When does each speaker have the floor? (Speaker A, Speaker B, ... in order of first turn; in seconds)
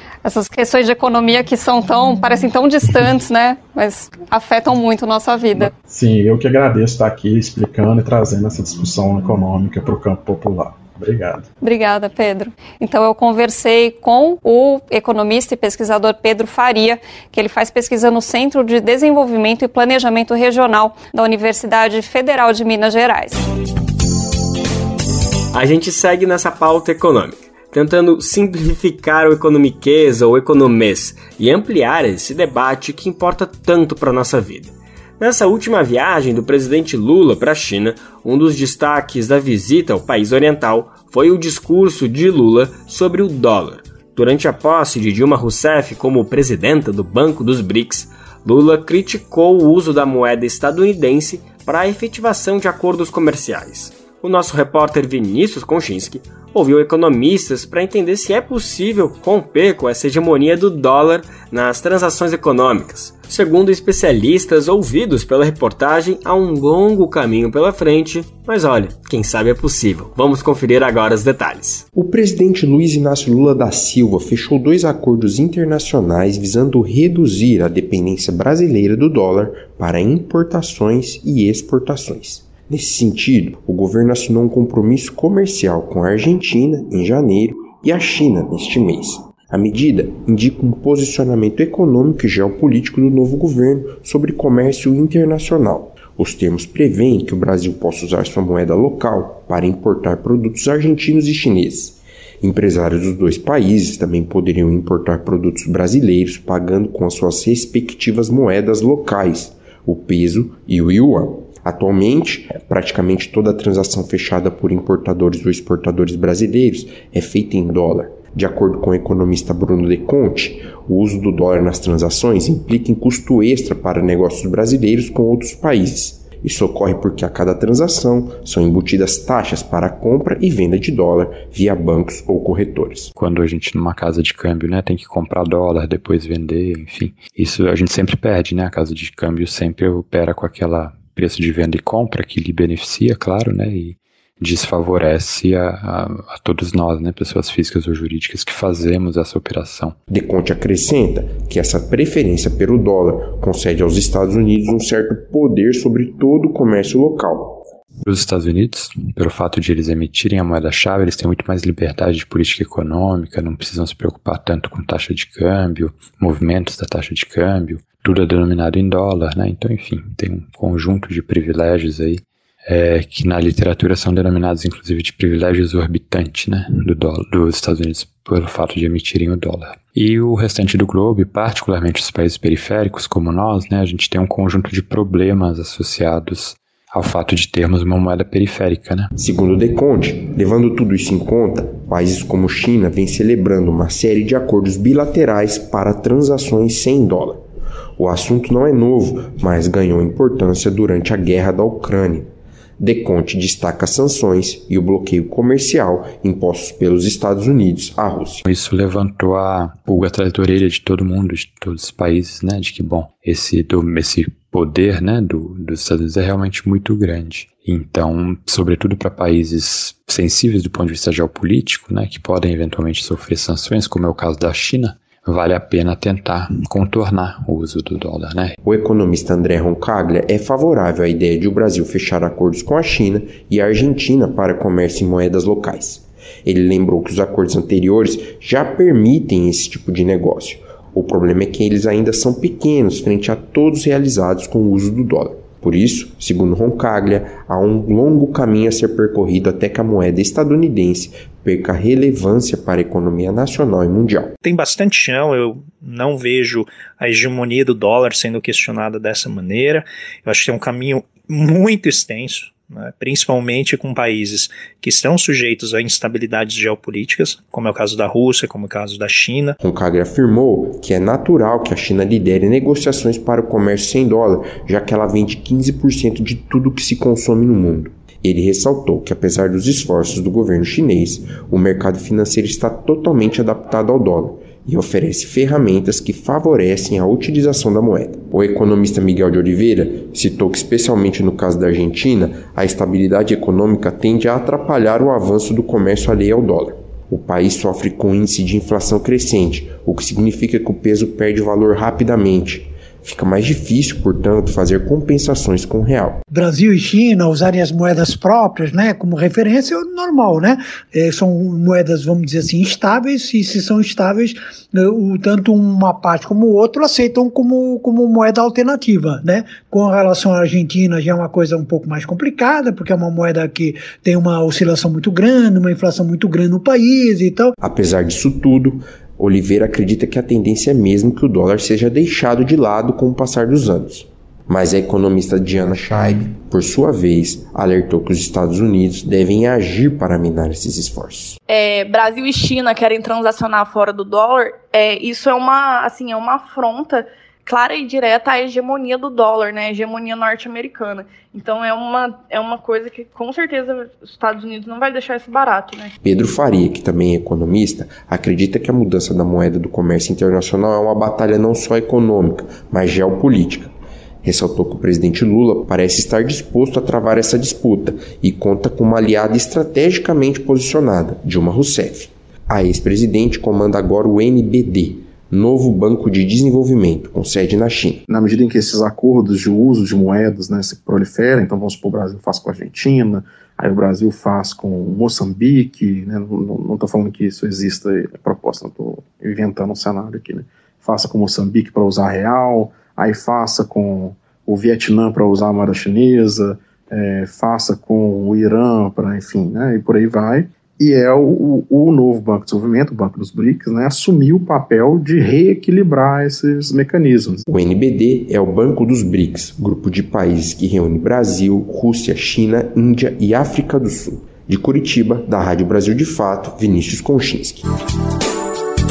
Speaker A: 0.2-5.7, 11.6-23.4
Speaker B: 5.8-11.5, 378.1-407.4
Speaker C: 25.5-71.8
Speaker D: 71.9-133.1, 150.1-157.7, 189.1-197.4, 198.0-208.4, 228.6-254.3, 269.6-306.2, 327.6-341.4, 356.0-363.7, 364.2-378.0, 407.5-417.6
Speaker E: 133.1-150.0, 158.0-189.1, 208.4-228.6
Speaker F: 254.4-269.6
Speaker G: 306.3-327.5
Speaker H: 341.5-355.9